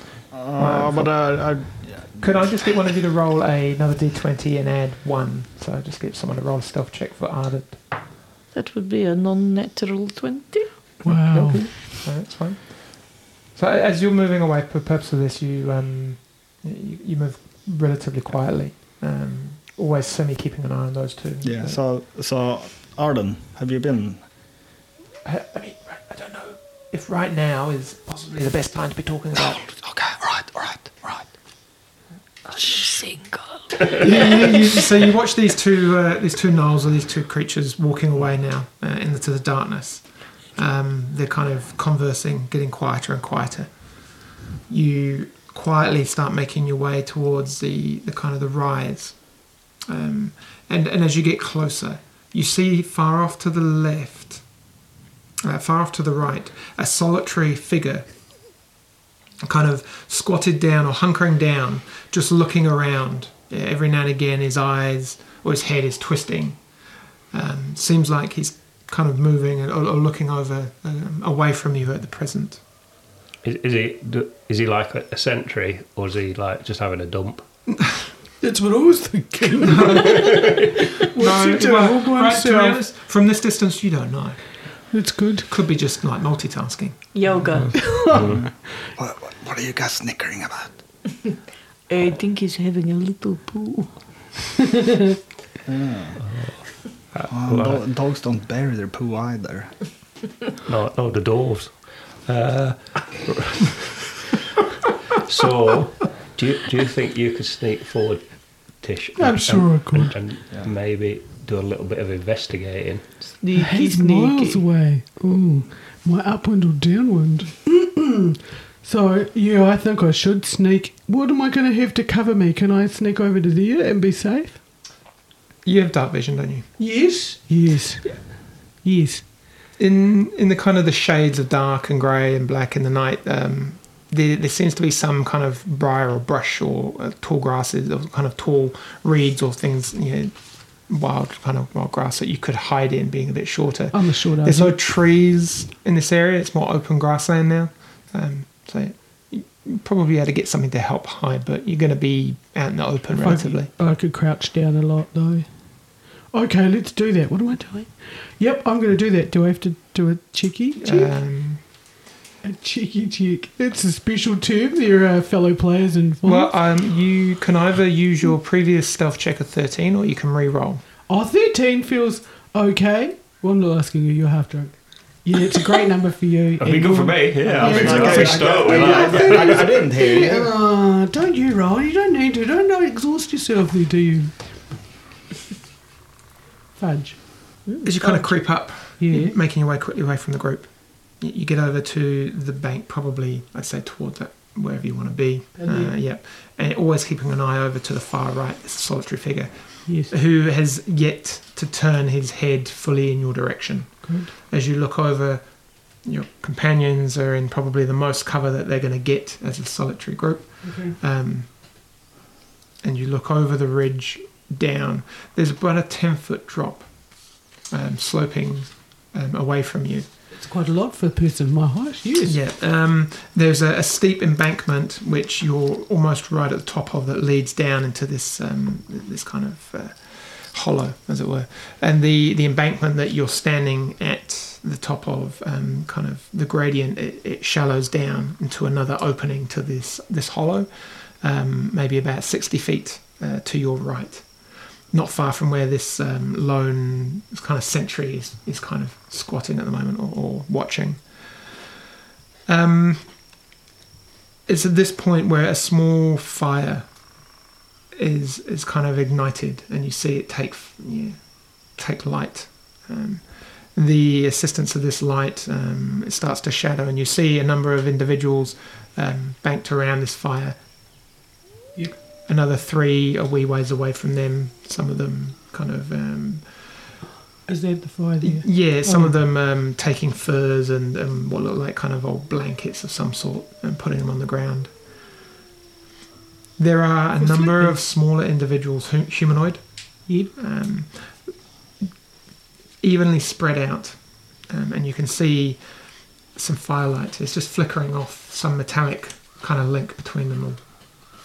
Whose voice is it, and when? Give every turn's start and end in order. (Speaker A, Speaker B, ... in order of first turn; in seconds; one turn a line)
Speaker A: 0.3-2.5
Speaker B: 0.6-1.4
Speaker B: 2.2-7.8
Speaker C: 8.5-10.7
Speaker D: 11.0-11.9
Speaker B: 11.1-21.8
Speaker A: 21.4-24.2
Speaker B: 25.2-29.6
Speaker A: 29.6-31.3
Speaker C: 32.5-34.0
Speaker B: 34.0-44.1
Speaker B: 44.7-54.4
Speaker B: 55.4-58.1
Speaker B: 59.4-66.6
Speaker B: 67.3-72.6
Speaker E: 73.4-77.5
Speaker D: 78.4-82.8
Speaker B: 79.6-80.6
Speaker B: 81.2-84.4
Speaker D: 84.9-85.5
Speaker B: 85.5-87.5
Speaker C: 87.1-87.9
Speaker E: 87.5-88.5
Speaker D: 87.7-88.3
Speaker A: 88.2-90.7
Speaker C: 91.9-94.0
Speaker A: 95.7-96.2
Speaker E: 96.2-97.8
Speaker A: 97.3-99.8
Speaker E: 100.7-104.2
Speaker E: 105.1-113.0
Speaker D: 109.2-110.2
Speaker C: 113.4-114.6
Speaker D: 113.5-124.6
Speaker B: 125.6-126.7
Speaker D: 126.8-129.3
Speaker B: 129.8-153.7
Speaker D: 143.9-144.8
Speaker D: 153.1-161.2
Speaker B: 160.8-161.6
Speaker D: 162.4-166.5
Speaker B: 166.2-170.8
Speaker D: 171.1-184.7
Speaker E: 176.6-179.8
Speaker A: 177.4-180.5
Speaker D: 186.8-189.4
Speaker B: 187.8-211.8
Speaker D: 195.6-196.0
Speaker D: 199.9-200.1
Speaker D: 204.0-204.3
Speaker D: 210.6-211.0
Speaker B: 212.8-220.1
Speaker D: 220.3-222.4
Speaker B: 222.2-251.7
Speaker B: 252.5-253.2
Speaker B: 254.5-257.0
Speaker B: 257.9-270.6
Speaker B: 272.3-276.9
Speaker D: 277.5-279.2
Speaker B: 278.2-284.7
Speaker B: 286.6-291.3
Speaker D: 287.2-287.8
Speaker D: 290.1-290.3
Speaker B: 292.8-295.6
Speaker B: 296.3-300.6